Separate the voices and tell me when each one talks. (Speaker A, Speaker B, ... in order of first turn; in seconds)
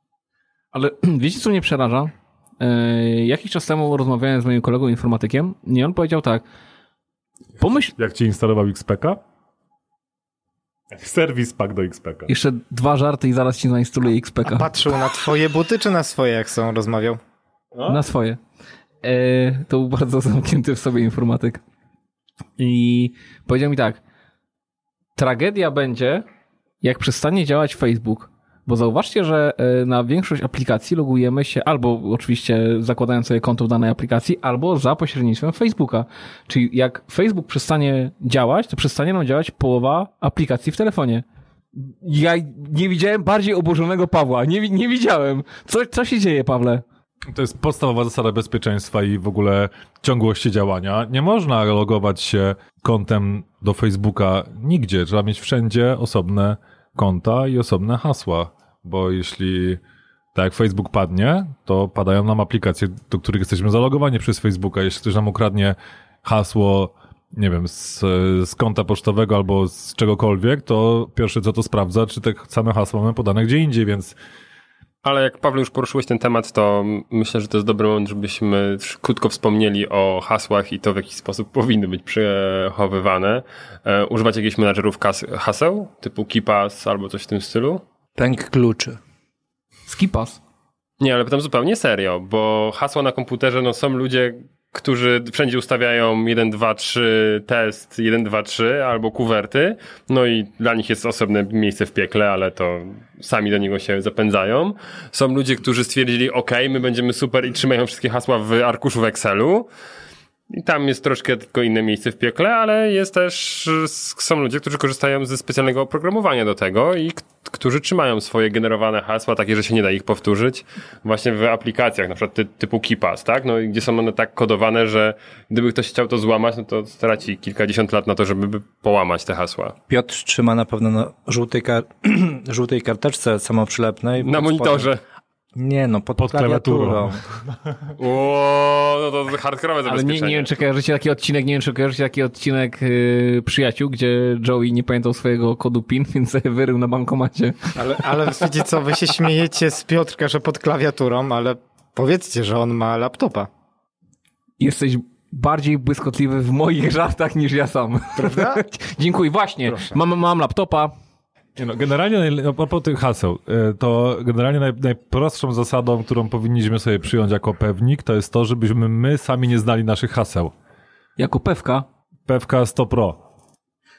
Speaker A: 0.7-6.4, 7.6-7.9, 12.3-14.7, 17.9-18.4, 19.0-21.6, 22.6-24.0, 25.1-26.2, 26.8-41.2, 41.8-46.8, 89.9-90.4, 139.9-148.0, 154.6-160.9, 171.2-171.8
Speaker B: 8.0-9.2, 10.9-12.3, 17.7-18.0, 47.3-59.8, 60.3-74.2, 136.2-137.2, 161.6-170.5, 172.3-173.2
Speaker C: 14.4-17.2, 147.8-153.5, 158.2-158.6, 159.7-160.0
Speaker D: 75.0-87.8, 91.0-109.7, 110.5-129.7, 134.2-135.0, 138.0-140.6
Speaker E: 88.2-89.0, 129.9-134.9, 135.5-137.2